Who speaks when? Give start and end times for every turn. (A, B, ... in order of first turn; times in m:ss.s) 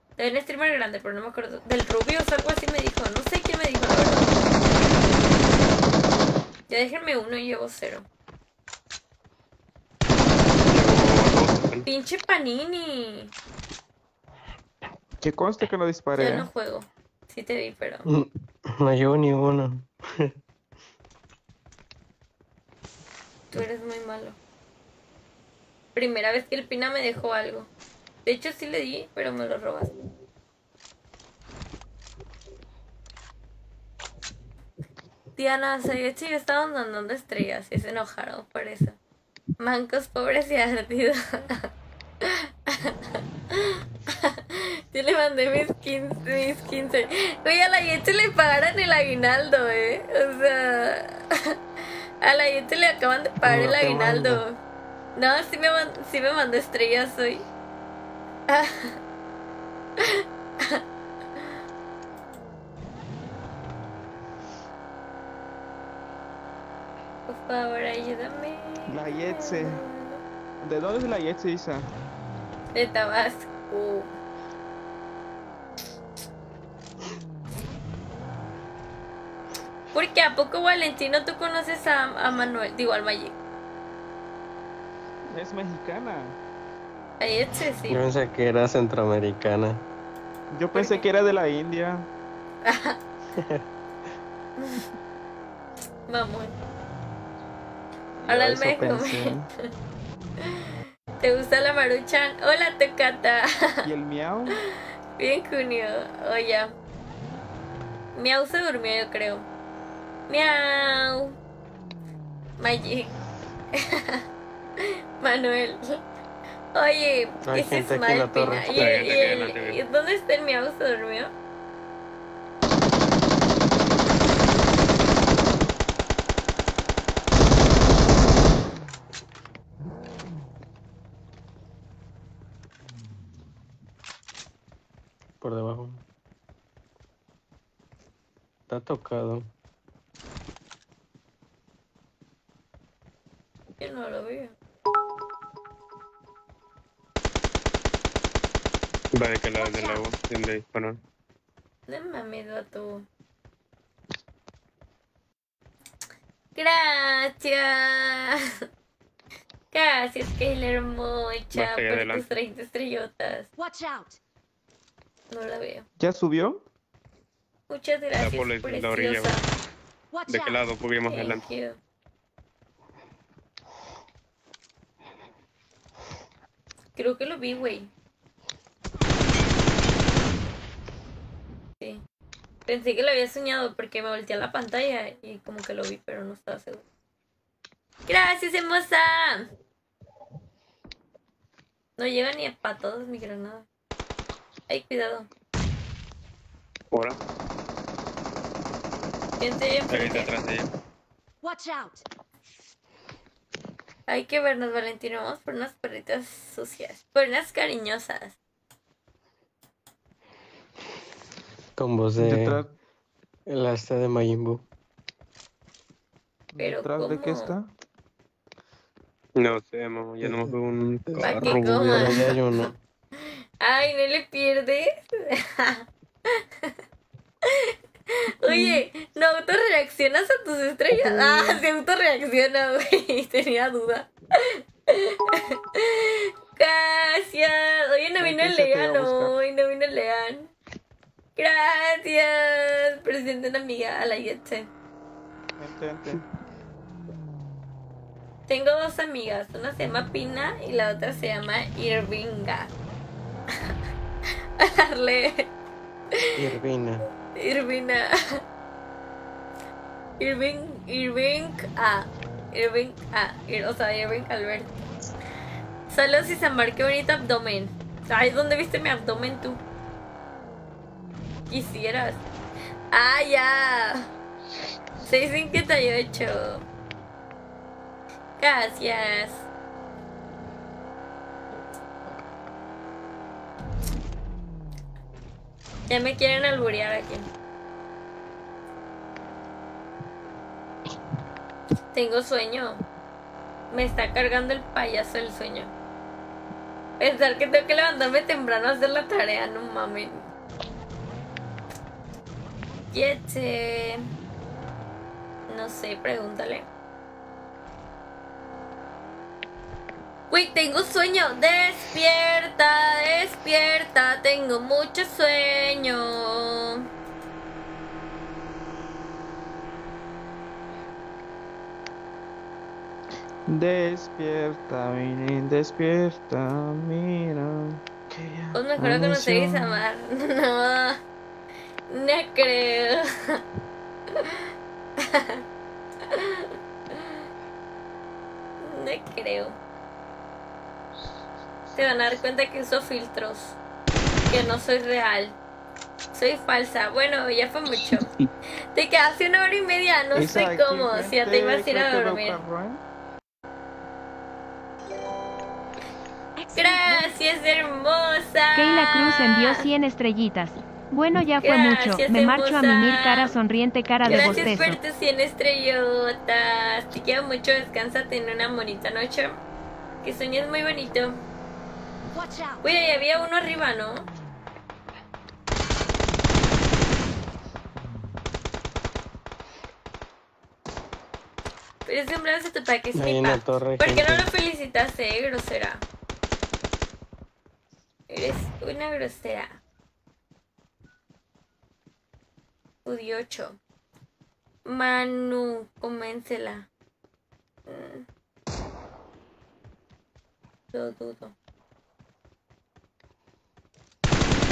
0:00.2-0:04.4 A
0:06.7-0:08.1 A
0:10.6-0:11.9 B
0:11.9-0:13.3 A
0:15.2-0:16.5 C
0:16.2-0:18.0 A
0:18.1-0:20.3 D
0:23.5-0:24.4 A
0:25.9-0:27.7 A
0:28.2-0:29.9 A
0:35.4-0:39.0 A
0:39.6-0:41.7 A
0:42.2-0:51.6 A
0:52.2-0:54.6 A
0:53.4-0:54.4 D
0:55.2-0:57.4 A
0:58.5-0:59.0 A
1:00.0-1:00.8 A
1:07.3-1:10.2 A
1:08.9-1:09.8 C
1:10.6-1:11.9 C
1:12.7-1:14.1 A
1:19.9-1:23.3 A
1:25.3-1:26.4 C
1:27.2-1:28.0 A
1:27.9-1:29.8 D
1:30.5-1:32.1 C
1:30.7-1:31.1 A
1:32.6-1:33.0 A
1:33.4-1:33.6 D
1:34.6-1:34.9 A
1:36.1-1:36.6 A
1:38.2-1:39.5 C
1:38.3-1:39.7 A
1:41.2-1:43.9 A
1:43.8-1:44.6 C
1:45.2-1:46.7 A
1:48.2-1:49.5 A
1:50.3-1:51.4 A
1:52.6-1:53.1 A
1:53.8-1:54.2 A
1:55.2-1:56.0 A
1:56.7-2:01.3 A
1:57.4-1:59.0 D
1:58.7-1:59.8 B
2:15.4-2:16.0 D
2:18.7-2:19.5 D
2:23.8-2:24.5 A
2:29.1-2:31.0 B
2:29.6-2:30.0 E
2:31.9-2:33.1 A
2:36.6-2:38.6 A
2:39.7-2:43.5 A
2:41.5-2:42.3 B
2:43.6-2:44.2 E
2:45.3-2:45.9 A
2:46.0-2:46.6 C
2:47.7-2:49.4 A
2:48.2-2:49.4 B
2:50.1-2:50.7 E
2:50.3-2:51.4 B
2:51.0-2:51.8 A
2:57.0-2:57.9 A
3:02.7-3:06.8 A
3:08.1-3:09.5 A
3:12.0-3:13.6 A
3:14.7-3:15.3 A
3:19.4-3:20.3 A
3:19.9-3:20.7 B
3:21.4-3:22.0 E
3:24.1-3:28.4 A
3:31.8-3:32.6 D
3:32.2-3:32.7 C
3:33.5-3:34.6 D
3:36.5-3:37.7 C
3:36.6-3:37.5 A
3:39.4-3:42.4 B
3:40.2-3:40.5 D
3:41.1-3:42.7 D
3:41.2-3:42.4 A
3:43.6-3:46.7 A
3:47.4-4:00.5 A
3:50.9-3:51.5 D
3:58.2-3:59.4 C
4:01.4-4:04.7 A
4:05.6-4:06.2 C
4:08.5-4:12.7 A
4:14.6-4:15.5 A
4:16.4-4:17.1 D
4:17.4-4:18.4 A
4:20.2-4:24.8 A
4:25.9-4:29.6 A
4:31.5-4:32.2 A
4:32.9-4:34.1 A
4:35.0-4:36.6 A
4:38.4-4:39.5 A
4:45.9-4:47.3 A
4:51.9-4:52.8 A
4:53.7-4:55.7 A
4:57.0-5:00.3 A
5:02.9-5:04.1 A
5:05.5-5:06.7 A
5:10.3-5:16.8 A
5:23.5-5:29.8 C
5:28.6-5:31.0 A
5:31.9-5:33.4 A
5:35.0-5:35.4 A
5:36.1-5:37.2 A
5:38.6-5:39.6 A
5:41.7-5:43.6 A
5:44.3-5:45.4 A
5:46.1-5:48.1 A
5:47.9-5:48.3 C
5:48.7-5:52.4 A
5:50.2-5:52.8 C
5:56.4-5:57.2 E
5:56.6-5:59.6 A
5:58.6-6:04.7 F
6:01.4-6:03.4 A
6:04.0-6:04.8 C
6:04.0-6:09.4 A
6:10.0-6:11.2 A
6:12.1-6:12.6 E
6:12.6-6:14.1 A
6:21.9-6:25.8 A
6:22.9-6:24.3 D
6:28.1-6:29.6 A
6:32.8-6:33.6 A
6:34.6-6:36.7 A
6:37.7-6:38.1 A
6:40.7-6:41.3 A